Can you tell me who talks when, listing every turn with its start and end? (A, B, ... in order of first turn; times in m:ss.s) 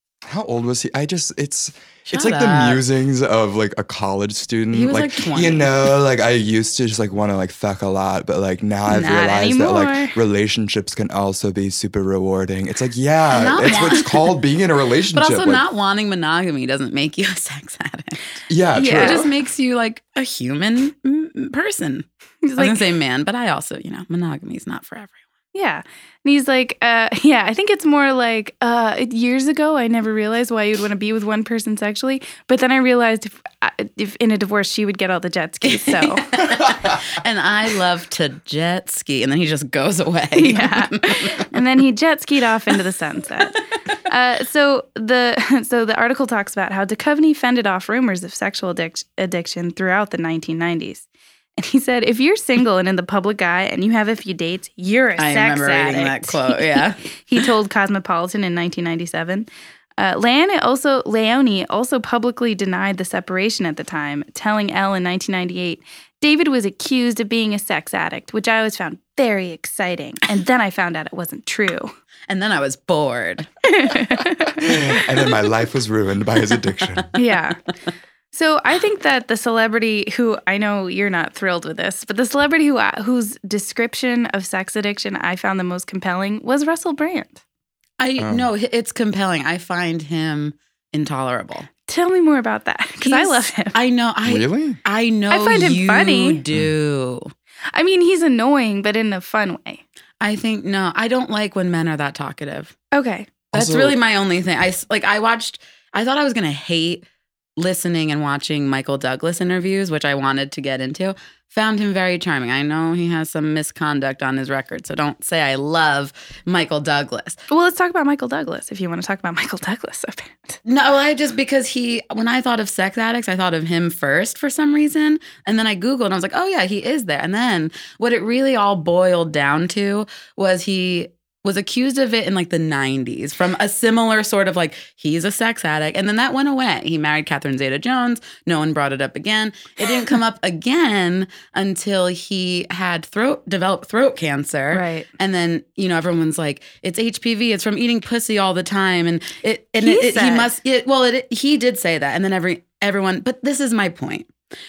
0:00.3-0:15.6 A
0:02.1-0:02.8 B
0:04.7-0:05.9 B
0:08.9-0:10.2 C
0:13.3-0:14.4 B
0:15.1-0:25.2 B
0:18.5-0:19.3 A
0:18.8-0:19.3 C
0:22.4-0:22.8 C
0:25.5-0:36.3 C
0:35.6-0:41.5 B
0:36.4-0:37.0 A
0:40.4-0:51.1 C
0:51.6-1:11.9 C
0:55.2-0:57.4 B
1:12.3-1:13.5 B
1:13.7-1:14.7 C
1:14.6-1:17.1 A
1:17.2-1:17.6 C
1:18.3-1:27.4 C
1:28.0-1:31.7 B
1:28.2-1:28.5 A
1:31.9-1:33.8 C
1:33.0-1:37.3 B
1:34.2-1:34.8 A
1:35.3-1:36.4 C
1:37.7-1:39.8 C
1:40.2-1:42.8 B
1:42.9-1:43.4 C
1:43.5-1:47.0 B
1:43.5-1:44.0 A
1:47.6-1:57.4 B
1:57.5-2:00.6 C
2:00.7-2:34.3 B
2:24.7-2:25.1 C
2:29.8-2:30.5 C